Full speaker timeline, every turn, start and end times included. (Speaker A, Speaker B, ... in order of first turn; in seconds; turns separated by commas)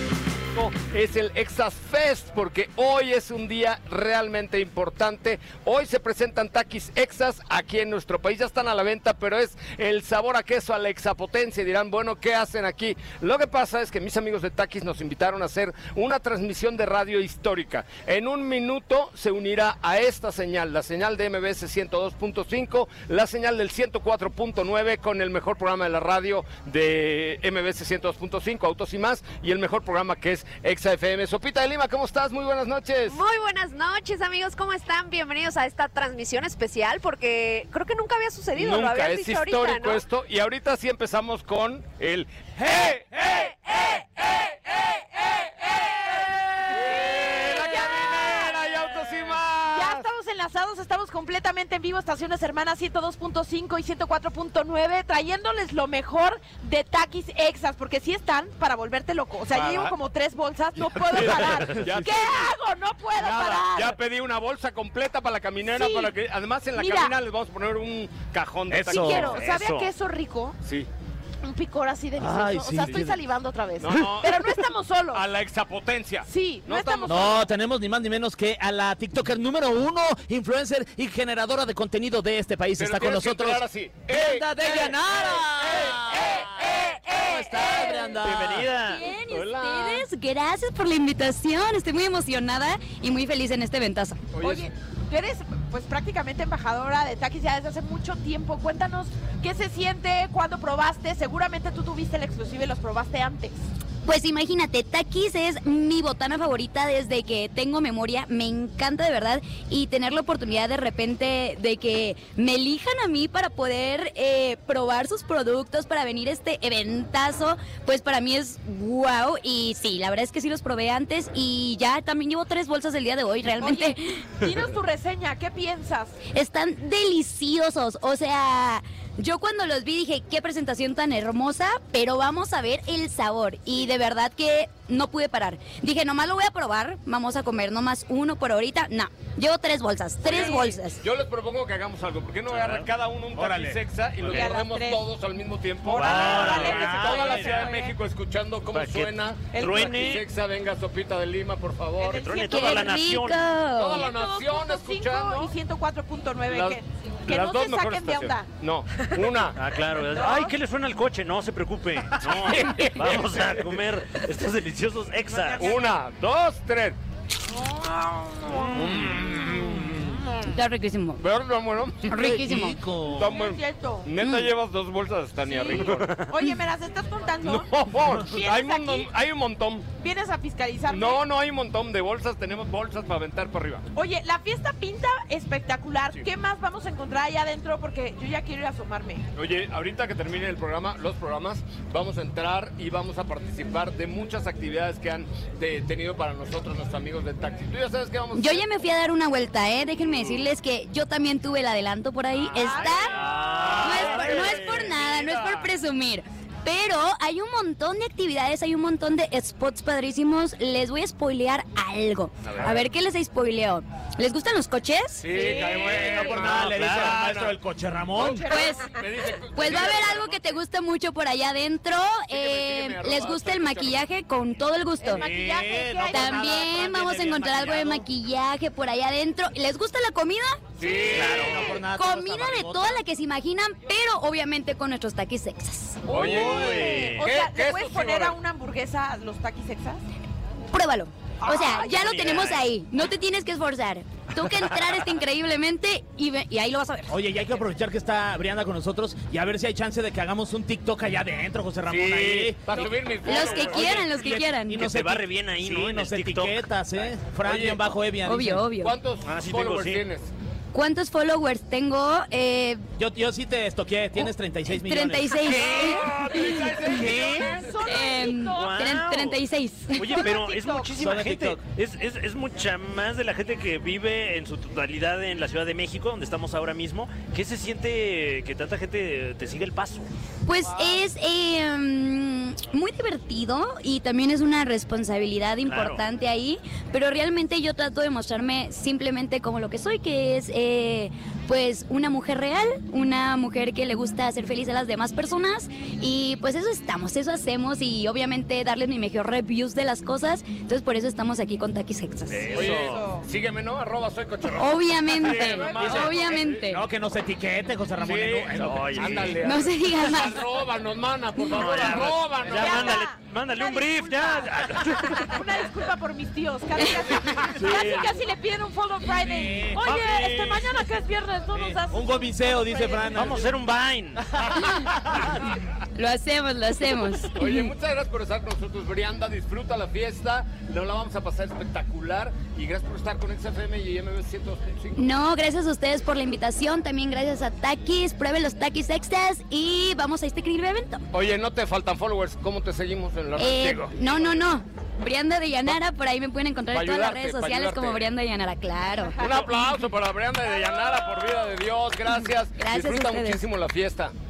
Speaker A: 0.5-33.2, Speaker B: 33.1-40.0, Speaker A: 38.5-44.0, Speaker C: 44.8-48.6, Speaker A: 46.6-50.0, Speaker C: 49.6-64.0, Speaker A: 59.5-60.0, Speaker A: 60.9-62.5, Speaker A: 63.1-69.4, Speaker C: 65.7-66.2, Speaker C: 66.7-67.2, Speaker D: 68.7-69.4, Speaker C: 68.8-70.6, Speaker E: 69.3-69.9, Speaker A: 70.6-70.9, Speaker C: 71.4-75.2, Speaker D: 72.2-73.2, Speaker A: 73.8-77.4, Speaker C: 76.2-77.4, Speaker D: 77.0-89.0, Speaker A: 82.8-86.8, Speaker C: 86.3-88.1, Speaker A: 87.5-88.1, Speaker E: 88.2-89.0, Speaker F: 88.9-94.2, Speaker A: 89.1-90.0, Speaker A: 94.3-94.7, Speaker C: 94.4-103.7, Speaker F: 104.0-124.3, Speaker C: 123.6-126.2, Speaker F: 126.3-141.0, Speaker C: 140.2-140.8, Speaker A: 140.2-152.3, Speaker E: 142.5-142.9, Speaker D: 143.3-144.3, Speaker C: 144.2-145.0, Speaker C: 145.8-148.0, Speaker E: 145.9-146.8, Speaker D: 145.9-147.7, Speaker E: 148.7-150.2, Speaker C: 149.5-150.2, Speaker C: 152.0-153.0, Speaker E: 152.2-153.5, Speaker F: 152.4-154.1, Speaker A: 153.7-155.5, Speaker C: 153.9-158.5, Speaker A: 156.4-159.6, Speaker E: 159.5-165.8, Speaker C: 160.1-160.5, Speaker A: 162.4-163.7, Speaker C: 165.3-165.9, Speaker A: 165.5-167.0, Speaker C: 167.5-168.7, Speaker A: 168.7-170.2, Speaker F: 170.4-171.2, Speaker A: 171.2-172.4, Speaker F: 172.1-172.8, Speaker D: 172.1-173.3, Speaker A: 173.1-176.4, Speaker C: 173.2-174.1, Speaker F: 174.2-174.5, Speaker C: 175.4-179.1, Speaker E: 175.9-176.2, Speaker A: 177.4-179.9, Speaker C: 180.0-181.2, Speaker A: 180.9-183.8, Speaker C: 183.9-189.2, Speaker A: 189.3-198.7, Speaker F: 198.3-203.2, Speaker C: 202.5-203.4, Speaker A: 202.5-205.7, Speaker E: 203.1-204.8, Speaker D: 203.4-204.4, Speaker F: 203.8-215.3, Speaker A: 212.5-212.8, Speaker A: 215.2-217.6, Speaker C: 215.3-216.4, Speaker D: 215.4-218.6, Speaker E: 216.6-217.2, Speaker A: 218.1-220.6, Speaker C: 218.2-219.0, Speaker F: 218.4-218.9, Speaker F: 219.5-225.3, Speaker A: 222.3-224.0, Speaker C: 225.0-226.8, Speaker D: 225.1-228.1, Speaker F: 226.1-230.6, Speaker A: 230.8-231.8, Speaker D: 231.0-233.0, Speaker E: 231.1-231.8, Speaker F: 231.8-236.2, Speaker C: 236.1-240.0, Speaker A: 236.1-238.4, Speaker E: 236.1-237.3, Speaker F: 240.7-247.2, Speaker C: 241.4-242.1, Speaker E: 241.8-242.6, Speaker D: 247.1-258.6, Speaker A: 251.9-254.1, Speaker F: 253.2-254.9, Speaker E: 254.8-256.7, Speaker A: 257.4-257.9, Speaker F: 258.2-258.9, Speaker A: 258.8-260.3, Speaker E: 259.2-260.0, Speaker F: 260.7-262.9, Speaker D: 263.0-266.2, Speaker F: 264.2-267.1, Speaker A: 265.4-268.0, Speaker D: 266.9-267.5, Speaker C: 266.9-268.9, Speaker F: 267.8-270.3, Speaker E: 268.4-269.4, Speaker E: 269.9-280.1, Speaker C: 270.0-270.9, Speaker D: 271.0-271.6, Speaker F: 280.4-302.6, Speaker C: 280.6-281.0, Speaker E: 285.6-286.0, Speaker E: 302.3-303.1, Speaker C: 302.5-303.3, Speaker A: 302.5-306.6, Speaker F: 304.5-306.8, Speaker D: 305.8-309.4, Speaker A: 308.0-313.0, Speaker E: 308.6-309.4, Speaker F: 309.4-310.5, Speaker F: 311.4-311.7, Speaker E: 311.5-315.4, Speaker C: 312.4-323.5, Speaker E: 317.6-318.0, Speaker A: 317.6-318.0, Speaker D: 319.1-320.1, Speaker E: 319.8-320.6, Speaker D: 321.5-323.5, Speaker E: 323.1-324.3, Speaker D: 324.2-325.4, Speaker F: 324.6-324.9, Speaker F: 325.9-327.7, Speaker A: 327.3-335.1, Speaker F: 334.9-341.0, Speaker A: 341.1-344.3, Speaker F: 343.4-349.5, Speaker A: 346.7-348.1, Speaker A: 349.2-354.1, Speaker F: 352.5-353.4